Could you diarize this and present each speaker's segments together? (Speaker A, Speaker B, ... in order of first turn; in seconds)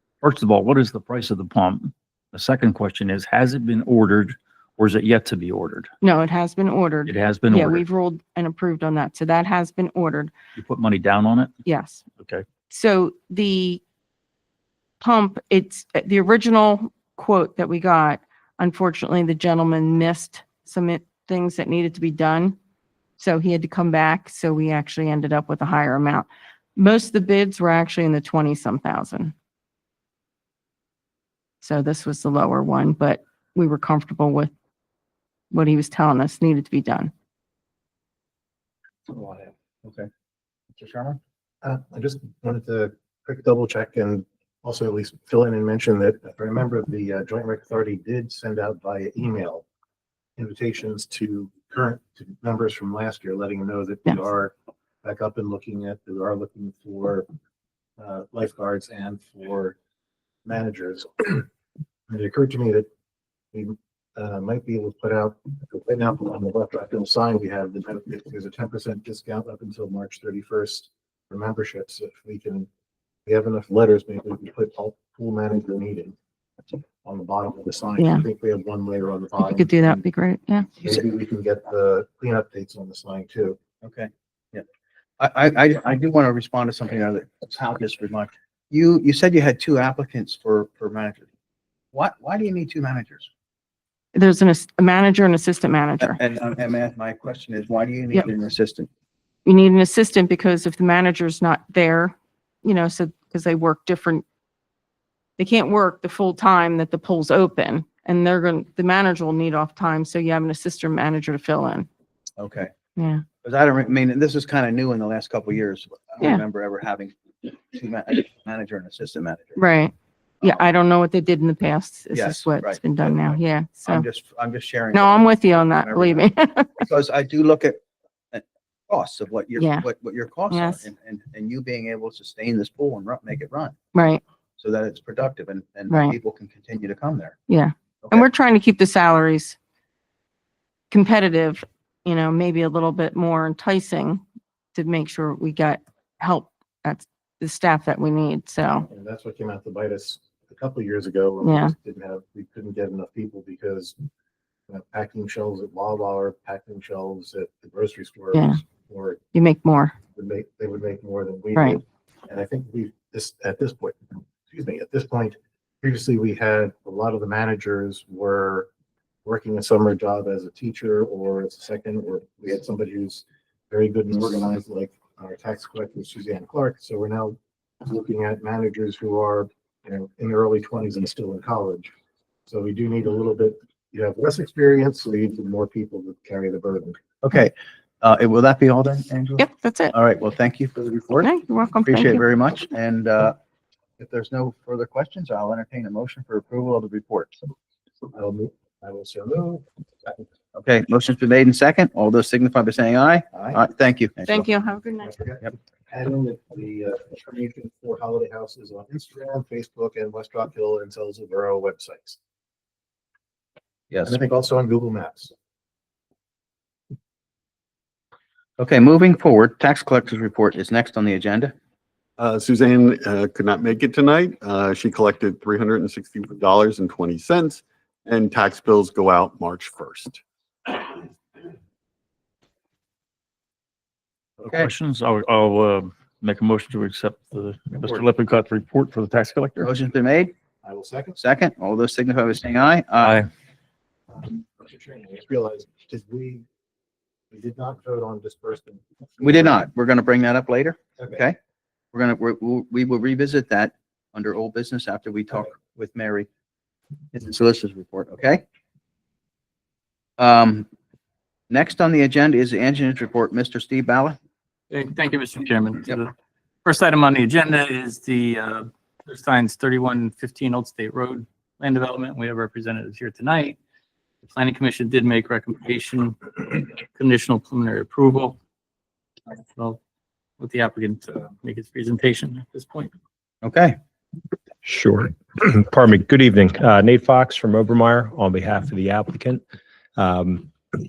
Speaker A: 0.2-5.9, 7.1-7.8, 10.5-11.5, 12.2-12.4, 234.4-239.7, 243.0-243.3
Speaker B: 6.0-10.3, 11.6-12.0, 12.7-13.8, 15.0-22.6, 23.2-29.3, 31.6-34.5, 35.5-37.1, 78.0-78.2, 79.4-80.7, 94.1-96.2, 99.5-104.2, 105.4-111.9, 113.0-113.2, 119.5-124.0, 124.9-126.8, 129.6-129.9, 130.5-130.8, 133.9-134.2, 135.9-136.2, 137.5-139.6, 140.9-144.2, 144.7-148.9, 151.4-151.7, 158.3-158.6, 159.3-159.9, 161.5-161.8, 189.4-189.9, 191.2-192.2, 204.2-205.1
Speaker C: 39.1-39.5, 41.6-49.6, 50.4-57.2, 58.0-59.8, 60.4-61.5, 62.1-62.9, 63.5-72.7, 73.2-76.2, 77.0-80.0, 80.8-83.6, 148.9-153.9, 154.7-159.2, 160.1-168.7, 169.2-181.9, 182.5-187.0, 198.1-200.3, 203.3-203.6, 205.0-212.2, 214.0-215.3, 240.6-241.2, 244.1-246.4, 247.3-249.6, 251.0-251.2
Speaker D: 40.8-41.2, 83.8-84.6, 85.2-91.3, 91.9-93.3, 96.0-98.9, 112.4-112.7, 113.4-119.6, 122.1-127.8, 128.3-133.7, 134.6-137.4, 187.2-193.3, 194.0-197.3, 200.5-204.4, 213.9-214.2, 218.6-221.5, 239.6-240.3, 241.2-243.2, 249.2-251.4, 251.9-256.3, 257.1-258.4, 260.2-260.6, 261.5-264.2, 283.4-283.8
Speaker E: 222.2-230.8
Speaker F: 264.7-266.1, 266.6-273.6, 274.3-278.4, 279.3-279.8, 280.4-282.9
Speaker G: 284.6-289.4, 290.0-290.5